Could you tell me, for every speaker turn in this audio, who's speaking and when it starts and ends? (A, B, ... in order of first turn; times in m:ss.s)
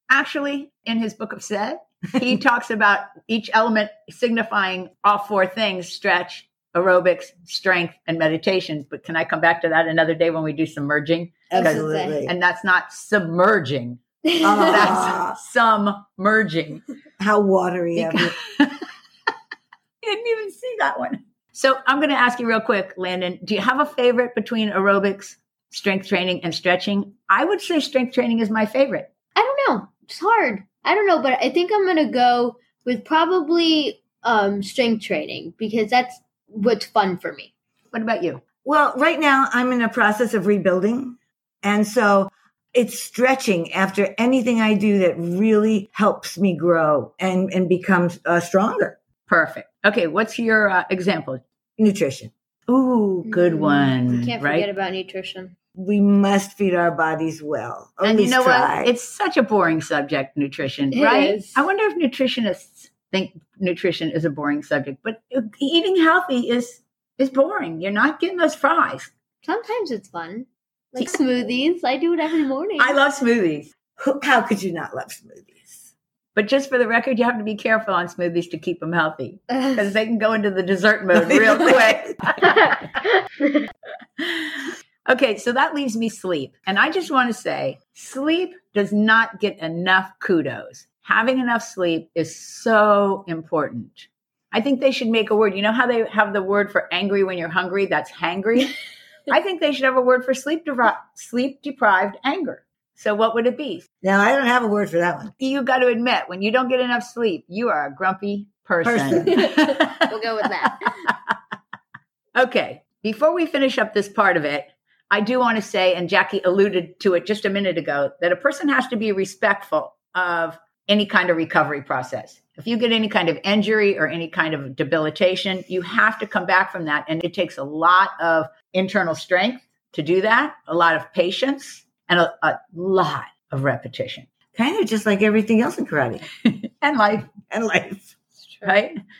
0:00.1-0:14.0 A
0:11.5-0:12.3 B
0:11.5-0:12.2 C
0:14.4-0:15.4 B
0:14.6-0:16.8 A
0:17.2-0:18.3 B
0:18.0-0:18.8 A
0:20.0-0:29.1 A
0:29.4-0:37.5 C
0:37.9-0:38.4 A
0:38.6-0:49.0 B
0:49.3-0:51.4 A
0:51.8-0:52.8 B
0:52.7-0:54.7 A
0:53.2-0:55.5 C
0:55.8-0:58.9 B
0:58.0-1:09.1 A
1:00.9-1:01.5 C
1:09.4-1:13.0 C
1:12.8-1:13.7 A
1:14.0-1:15.9 B
1:16.3-1:22.8 A
1:21.2-1:21.7 B
1:24.2-1:38.7 A
1:39.3-1:43.8 A
1:44.0-1:45.3 B
1:45.4-1:51.3 A
1:48.8-1:49.4 B
1:49.3-1:50.9 C
1:52.4-2:14.3 A
2:14.6-2:16.2 B
2:16.4-2:17.3 A
2:17.5-2:18.1 B
2:18.6-2:19.0 A